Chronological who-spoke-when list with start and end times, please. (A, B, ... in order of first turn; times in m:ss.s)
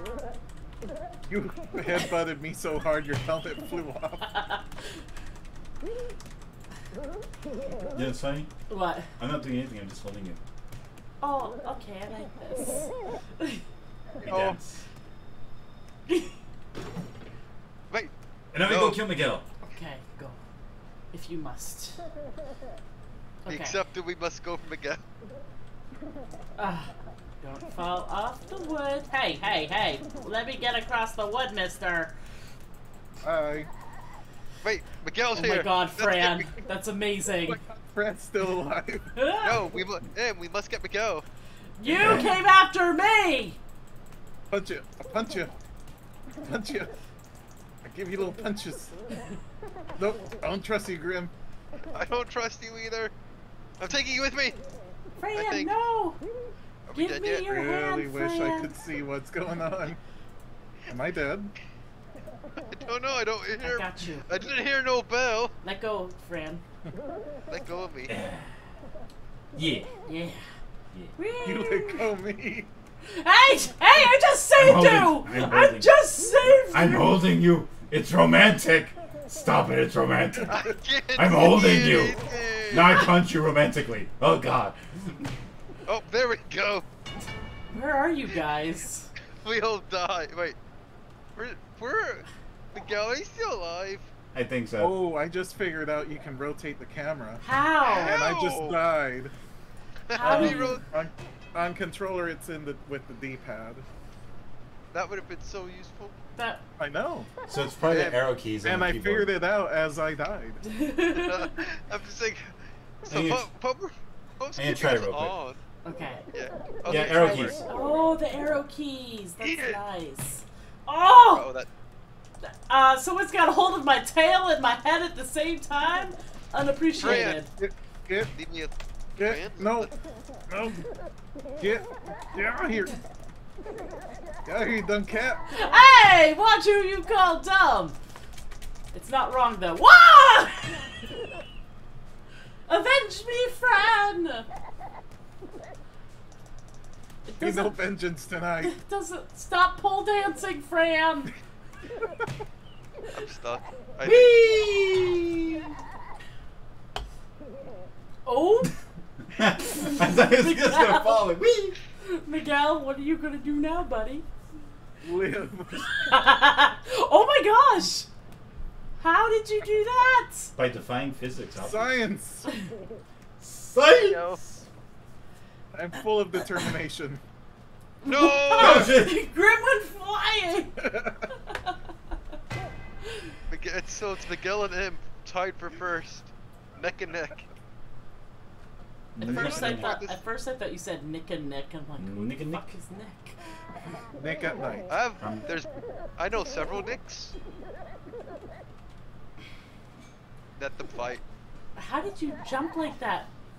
0:01.3-0:04.2 A
0:04.3-0:05.0 B
0:07.9-0:08.5 C
0:08.7-0:09.1 B
0:09.2-0:10.4 C
0:11.2-0:13.6 B
0:14.2-0:14.8 C
0:14.3-0:14.6 A
0:18.5-0:19.4 C
0:18.6-0:19.0 D
0:19.7-0:20.4 B
0:21.1-0:22.1 B
0:23.5-0:23.8 B
0:23.5-0:25.0 D
0:26.6-0:32.2 B
0:33.2-0:33.7 A
0:34.6-0:36.5 D
0:35.4-0:37.6 B
0:37.4-0:39.1 A
0:39.2-0:39.6 B
0:39.4-0:41.3 D
0:41.8-0:43.6 B
0:41.9-0:42.3 C
0:44.5-0:45.6 A
0:46.4-0:46.9 A
0:47.8-0:49.0 A
0:50.0-0:51.3 A
0:51.9-0:53.1 D
0:53.8-0:54.6 D
0:55.2-0:56.2 B
0:55.4-0:55.7 D
0:56.9-0:57.5 D
0:56.9-0:58.7 B
0:57.5-1:00.0 A
1:00.9-1:01.5 A
1:02.6-1:05.6 D
1:03.6-1:04.4 B
1:05.6-1:06.6 B
1:07.5-1:08.1 D
1:08.1-1:08.6 C
1:09.6-1:09.9 C
1:10.1-1:10.5 B
1:11.2-1:12.1 B
1:11.4-1:12.7 A
1:13.1-1:17.1 B
1:14.6-1:20.6 C
1:20.3-1:20.6 A
1:20.5-1:23.1 D
1:21.2-1:22.2 C
1:22.7-1:25.2 C
1:25.9-1:26.8 D
1:27.7-1:29.1 B
1:29.4-1:30.6 D
1:31.4-1:34.1 D
1:34.3-1:35.0 C
1:34.8-1:39.3 A
1:37.4-1:38.2 B
1:37.9-1:38.8 D
1:40.1-1:40.9 D
1:40.1-1:40.8 B
1:40.2-1:43.9 A
1:44.9-1:46.2 D
1:46.4-1:46.6 B
1:46.8-1:47.3 A
1:47.5-1:49.3 C
1:47.9-1:50.6 A
1:50.6-1:51.6 B
1:51.2-1:55.6 D
1:53.1-1:53.5 C
1:54.6-1:55.4 C
1:55.8-1:56.2 B
1:56.3-1:57.6 D
1:56.9-1:57.6 C
1:56.9-2:01.5 B
1:59.4-1:59.8 D
2:01.3-2:01.7 D
2:02.4-2:07.5 B
2:07.0-2:07.4 D
2:07.0-2:08.3 A
2:08.3-2:09.9 D
2:09.2-2:09.9 A
2:10.5-2:10.8 A
2:11.6-2:13.0 A
2:14.5-2:15.4 A
2:15.5-2:18.0 B
2:18.9-2:20.8 B
2:22.7-2:24.5 B
2:27.3-2:27.8 B
2:27.4-2:28.7 A
2:28.6-2:31.3 B
2:33.1-2:34.4 D
2:34.0-2:35.6 C
2:38.3-2:38.7 B
2:39.3-2:41.8 C
2:39.7-2:41.3 B
2:42.0-2:44.3 B
2:45.0-2:45.9 A
2:46.1-2:48.1 B
2:49.0-2:50.5 B
2:50.6-2:52.0 C
2:51.6-2:52.5 A
2:53.4-2:54.4 C
2:54.0-2:54.4 D
2:55.7-2:57.2 A
2:58.0-3:00.9 B
2:58.1-2:58.9 D
2:58.6-2:59.2 C
3:00.8-3:01.2 A
3:03.5-3:07.5 D
3:09.2-3:09.9 C
3:09.2-3:10.2 D
3:09.2-3:14.0 B
3:12.0-3:12.7 C
3:14.2-3:14.9 A
3:14.9-3:17.3 D
3:20.6-3:21.2 D
3:21.8-3:23.3 B